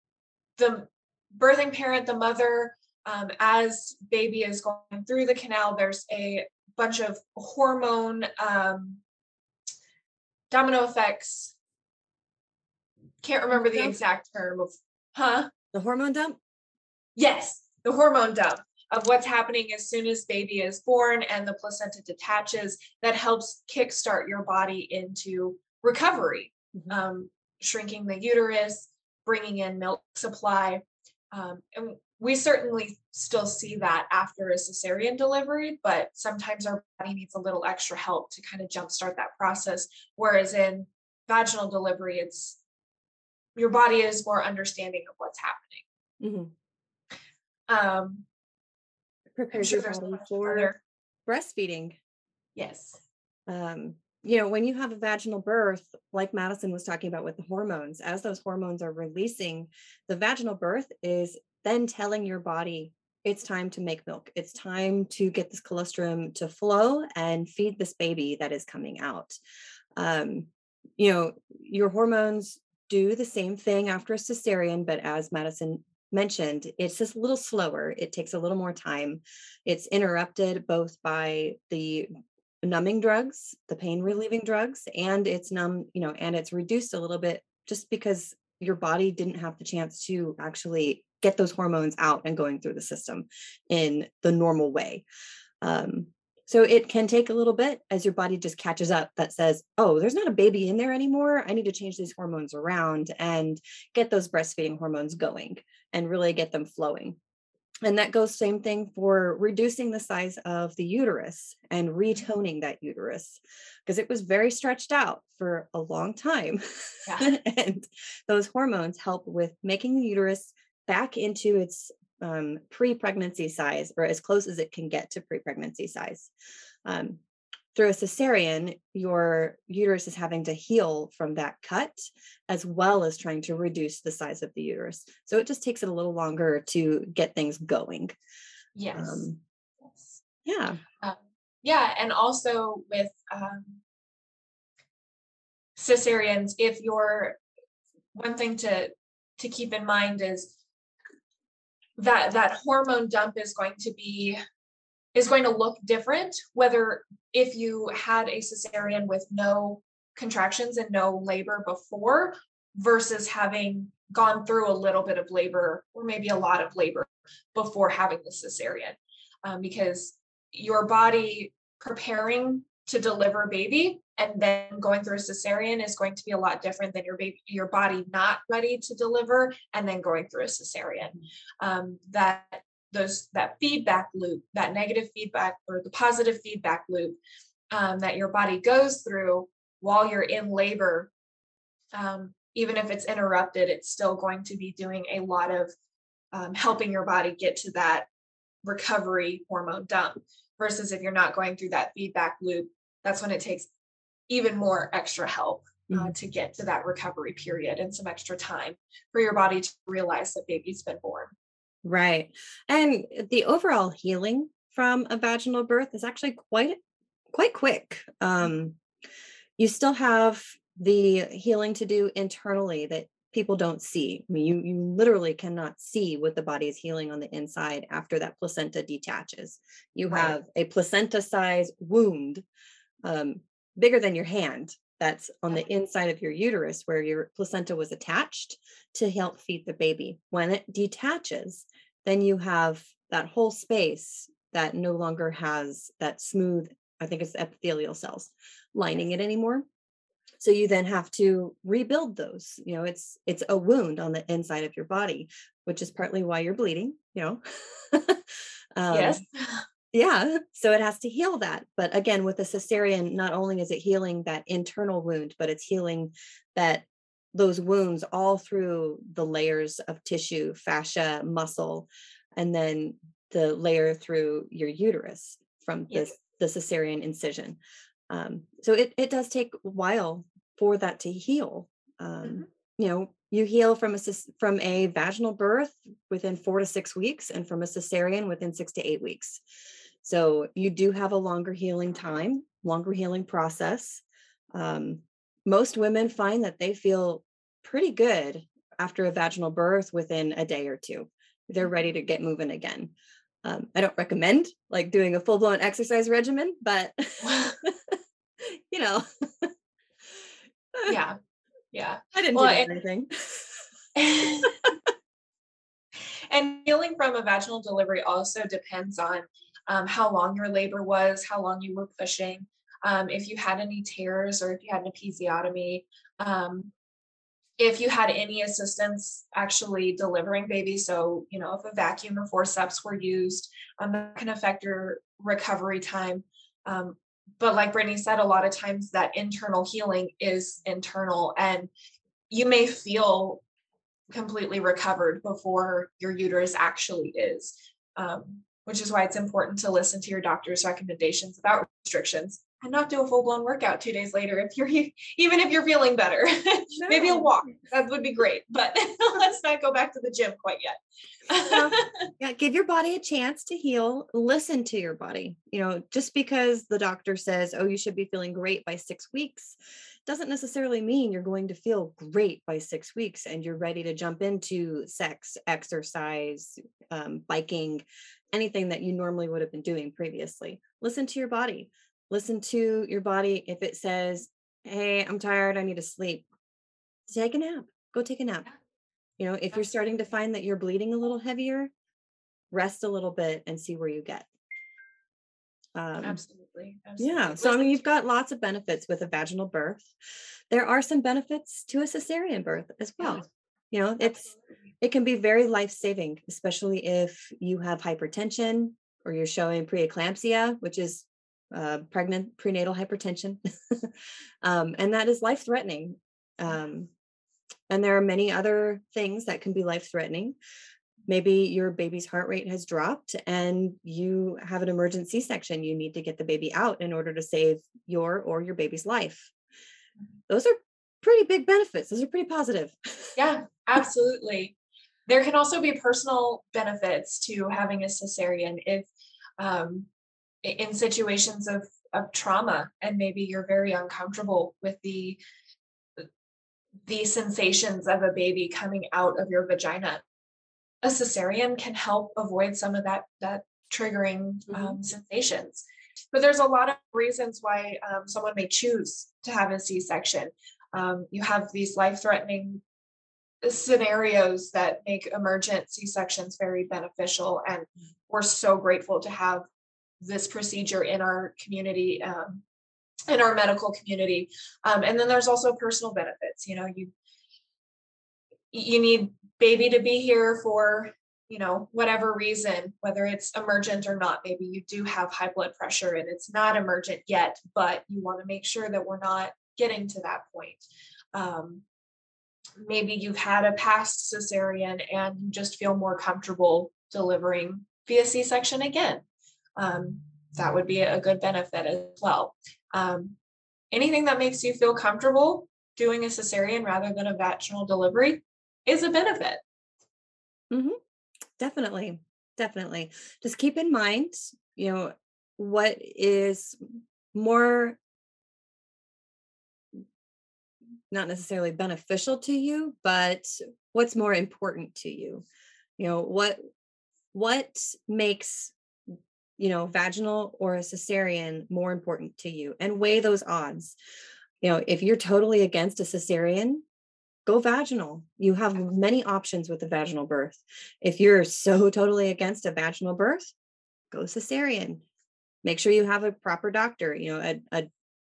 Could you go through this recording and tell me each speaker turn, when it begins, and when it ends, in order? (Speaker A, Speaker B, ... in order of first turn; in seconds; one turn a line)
Speaker A: 0.6-9.0
Speaker A: 10.5-11.5
Speaker A: 13.2-15.5
Speaker B: 13.5-13.9
Speaker B: 15.7-16.4
Speaker A: 17.2-42.6
Speaker A: 43.6-45.8
Speaker B: 46.2-46.5
Speaker A: 47.7-48.2
Speaker B: 49.4-50.7
Speaker A: 49.5-50.8
Speaker B: 51.3-52.0
Speaker A: 52.6-53.0
Speaker B: 53.5-69.4
Speaker B: 70.0-82.1
Speaker B: 82.6-95.0
Speaker B: 95.6-107.2
Speaker B: 107.9-126.3
Speaker B: 126.8-127.2
Speaker B: 127.7-138.1
Speaker A: 138.8-139.3
Speaker B: 138.9-139.4
Speaker A: 139.8-140.2
Speaker B: 140.4-140.8
Speaker A: 141.0-143.8
Speaker A: 145.8-147.4
Speaker A: 148.1-150.6
Speaker A: 152.0-154.4
Speaker A: 155.1-187.2
Speaker A: 187.7-191.1
Speaker A: 191.9-195.7
Speaker A: 196.3-198.1
Speaker A: 198.6-203.7
Speaker A: 204.3-211.3
Speaker B: 205.9-206.1
Speaker B: 211.8-216.8
Speaker B: 217.3-218.8
Speaker B: 219.6-232.4
Speaker A: 230.1-230.3
Speaker B: 233.1-249.6
Speaker B: 250.4-259.2
Speaker A: 258.9-259.6
Speaker B: 259.9-277.6
Speaker A: 275.9-276.1
Speaker B: 278.1-289.4
Speaker B: 290.0-294.0
Speaker B: 294.5-302.9
Speaker B: 303.4-309.5
Speaker A: 307.2-307.6
Speaker A: 310.9-311.2
Speaker A: 311.7-312.8
Speaker B: 312.1-313.6
Speaker A: 313.9-314.6
Speaker A: 316.3-326.7
Speaker A: 327.6-341.7
Speaker A: 342.3-343.4
Speaker A: 344.1-362.0
Speaker B: 356.8-357.3
Speaker B: 361.5-369.6
Speaker B: 370.1-386.3
Speaker B: 387.1-388.5
Speaker B: 389.2-391.7
Speaker B: 392.5-394.3
Speaker B: 395.8-396.2
Speaker A: 396.0-397.8
Speaker B: 397.0-399.9
Speaker B: 400.5-404.3
Speaker A: 404.0-404.4
Speaker B: 404.8-416.9
Speaker B: 417.7-420.4
Speaker B: 421.1-429.3
Speaker B: 430.3-433.2
Speaker A: 433.2-434.6
Speaker A: 435.1-439.9
Speaker A: 440.4-445.2
Speaker A: 446.9-450.0
Speaker A: 450.8-462.6
Speaker A: 463.4-469.4
Speaker A: 470.0-472.4
Speaker A: 473.1-476.9
Speaker A: 478.5-491.6
Speaker A: 492.6-499.0
Speaker A: 499.6-503.2
Speaker A: 503.7-509.4
Speaker B: 510.5-510.8
Speaker B: 511.4-517.8
Speaker B: 520.9-525.2
Speaker B: 525.8-526.4
Speaker B: 527.1-528.5
Speaker B: 529.4-533.7
Speaker B: 534.4-536.6
Speaker B: 537.3-543.3
Speaker B: 543.9-544.8
Speaker B: 545.4-547.7